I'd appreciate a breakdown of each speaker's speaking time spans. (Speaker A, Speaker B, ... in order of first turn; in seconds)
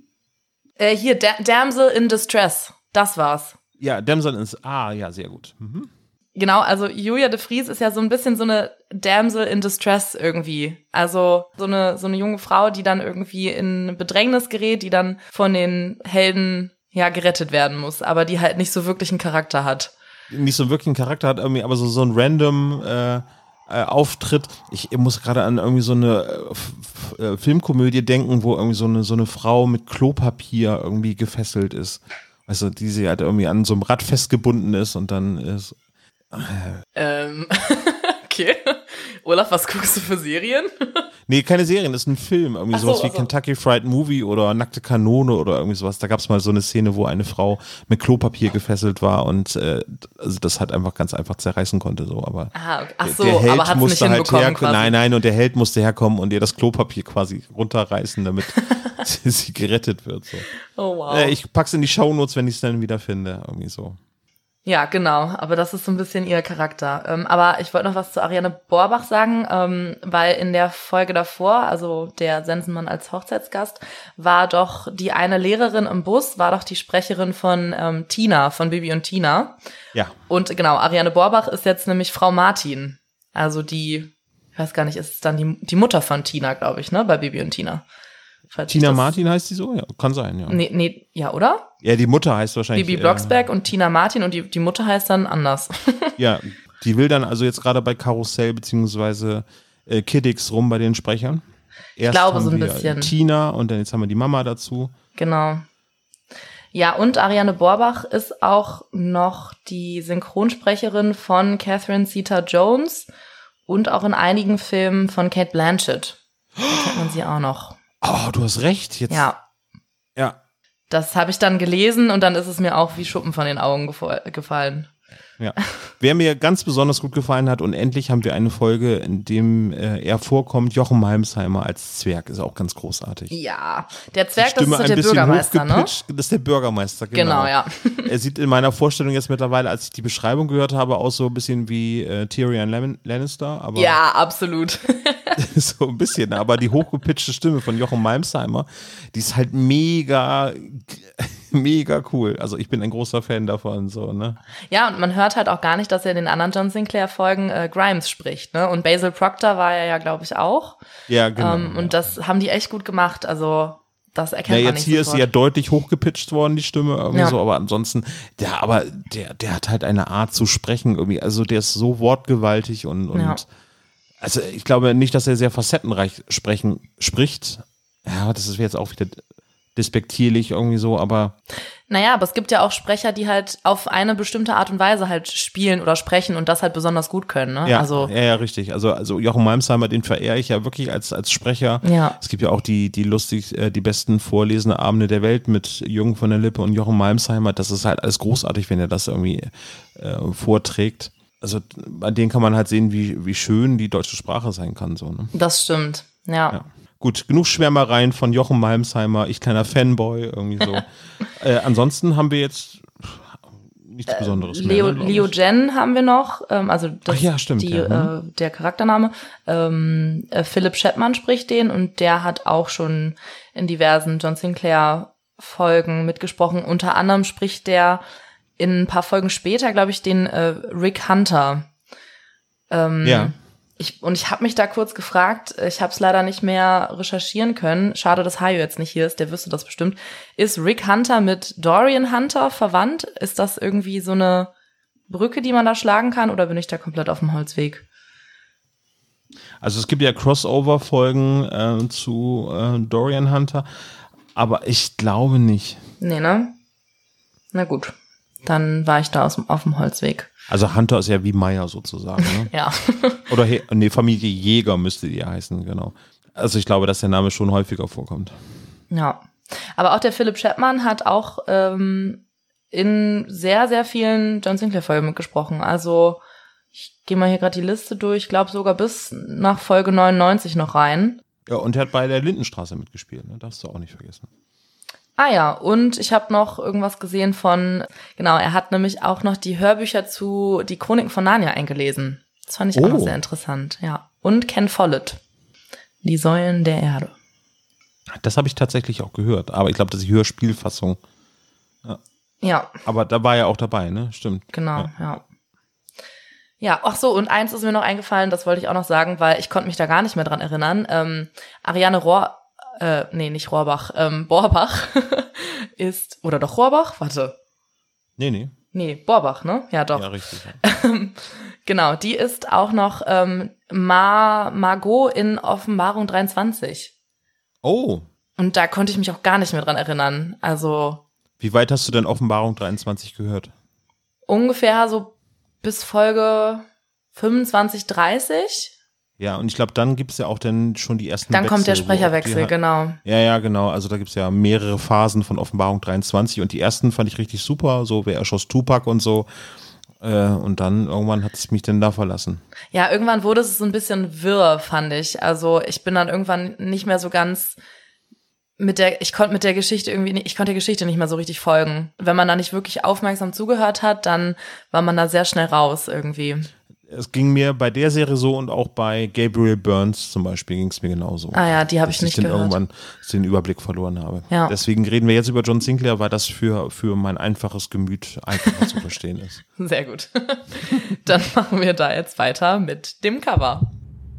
Speaker A: 0.8-3.6, 6.3-19.9, 37.0-41.0, 42.7-43.3, 52.5-55.0, 60.8-61.4, 64.7-79.6, 80.3-87.8, 88.5-89.1, 90.5-91.7, 92.7-96.1, 102.1-103.1, 105.2-105.6, 106.7-113.1, 113.7-116.2, 116.8-117.8, 119.1-119.4, 120.9-124.9, 133.3-135.9, 137.1-138.1, 143.7-145.3, 154.7-160.8, 161.4-165.3, 167.1-167.4, 173.1-173.4, 181.9-188.1, 191.8-192.2, 205.3-206.6, 214.1-228.0, 228.6-231.7, 232.7-244.5, 245.1-247.8, 256.0-256.5, 257.5-260.3, 262.2-263.2, 268.9-269.2, 269.8-276.2, 276.8-281.2, 285.2-295.2, 296.0-297.1, 302.4-302.8, 304.5-305.2, 306.6-317.3, 318.7-320.1, 320.6-326.9, 328.4-331.0, 334.3-338.7, 341.3-343.0, 352.7-357.6, 358.6-366.5, 371.3-372.6, 379.6-383.7
Speaker B: 3.8-5.9, 20.3-35.8, 36.3-36.8, 41.3-60.5, 61.1-64.0, 88.7-90.6, 91.8-93.3, 96.2-101.4, 102.0-104.9, 116.6-116.9, 118.0-119.3, 125.4-133.3, 134.4-137.5, 138.0-144.0, 145.4-154.4, 161.1-161.9, 164.5-173.4, 174.2-179.2, 179.8-181.3, 187.6-205.3, 206.5-215.3, 217.1-218.1, 233.0-233.3, 249.6-253.7, 254.3-255.8, 260.5-262.5, 263.3-268.4, 281.5-284.3, 292.7-293.1, 298.1-301.0, 302.8-304.9, 318.2-318.5, 319.9-320.6, 327.6-328.1, 331.4-333.5, 339.2-349.3, 350.0-352.4, 366.9-379.4